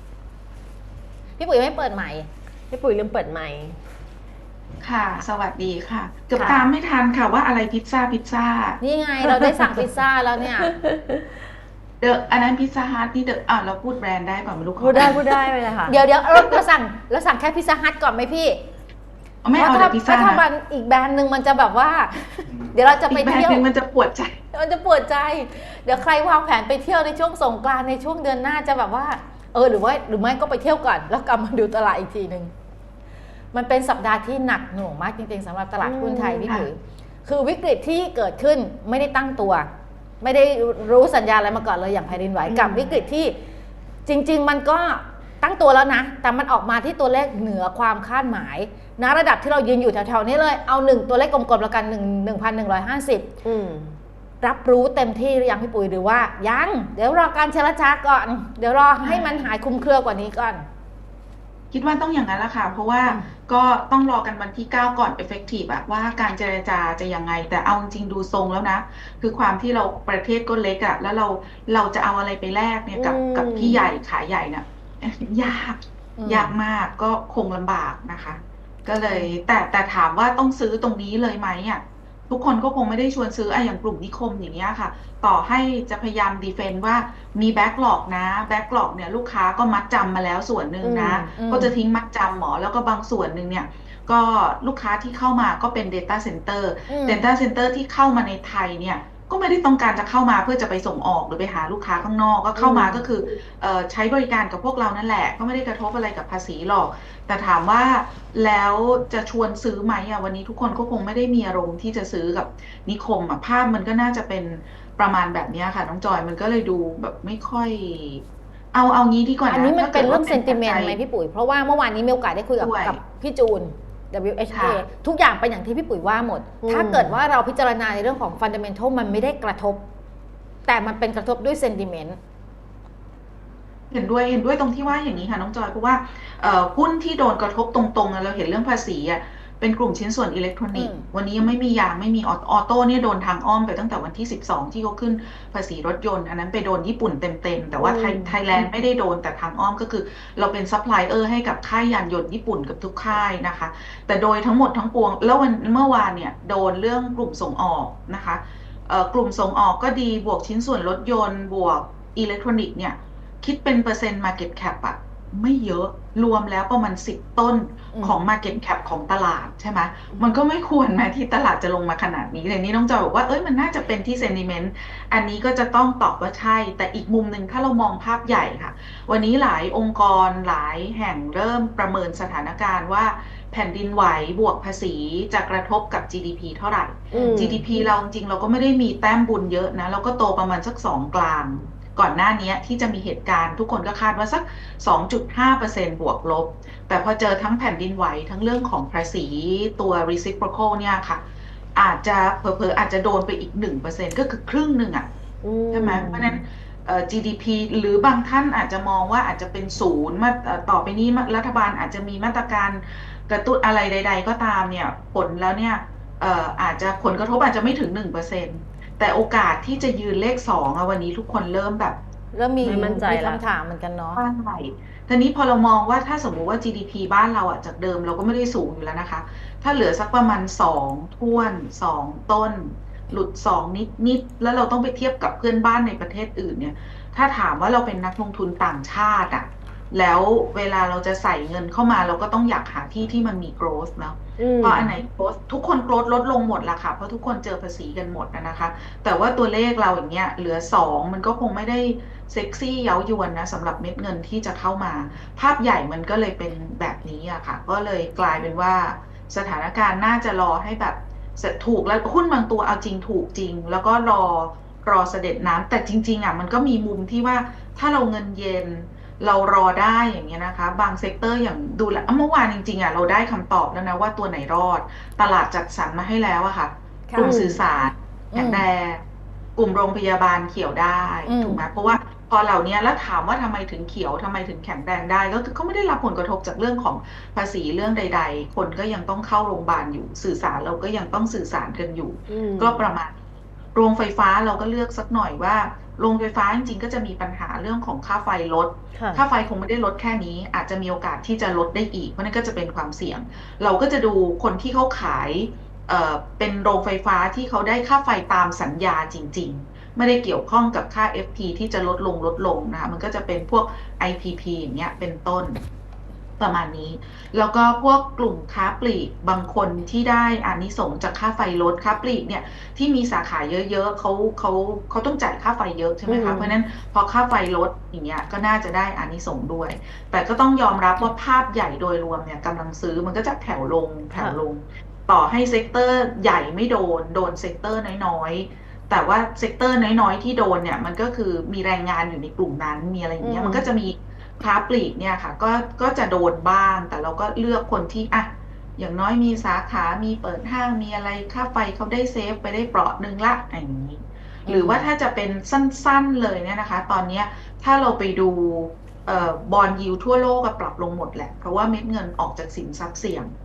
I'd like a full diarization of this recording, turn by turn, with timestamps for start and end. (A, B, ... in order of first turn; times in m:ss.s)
0:01.4-0:02.3 A
0:02.7-0:03.8 B
0:04.8-0:08.8 C
0:06.4-0:06.7 B
0:08.8-0:10.7 A
0:10.6-0:11.2 B
0:12.0-0:15.4 C
0:14.8-0:16.0 B
0:15.9-0:18.6 A
0:19.4-0:20.4 C
0:19.6-0:23.7 A
0:23.1-0:24.4 C
0:24.5-0:32.5 A
0:33.5-0:39.7 A
0:35.8-0:36.5 B
0:40.2-0:43.4 A
0:42.6-0:42.8 C
0:44.0-0:53.3 A
0:53.4-0:53.9 B
0:54.4-1:00.6 A
0:59.0-0:59.5 C
1:01.7-2:01.0 C
1:12.9-1:13.8 B
1:16.2-1:16.6 A
1:30.8-1:31.3 B
1:31.3-1:31.7 A
1:36.9-1:37.2 A
1:42.6-1:43.1 B
1:59.5-2:09.9 A
2:02.6-2:03.0 C
2:04.5-2:04.8 C
2:06.6-2:07.2 B
2:10.6-2:12.2 A
2:13.9-3:21.2 C
2:20.7-2:21.1 A
2:27.8-2:28.4 B
2:47.9-2:48.2 A
3:07.1-3:07.6 B
3:21.7-3:25.1 C
3:25.4-3:26.4 B
3:25.7-3:42.0 C
3:42.3-3:44.2 A
3:42.6-3:43.4 B
3:44.2-4:39.0 C
4:04.4-4:04.9 B
4:37.1-4:37.4 A
4:37.2-4:37.6 B
4:38.3-4:38.6 A
4:39.6-4:53.2 C
4:41.3-4:41.6 A
4:52.3-4:52.8 B
4:53.7-5:15.6 C
4:58.9-4:59.2 B
5:16.4-6:03.3 C
5:26.1-5:26.6 B
5:34.1-5:34.4 B
5:43.2-5:43.7 B
5:54.4-5:54.9 A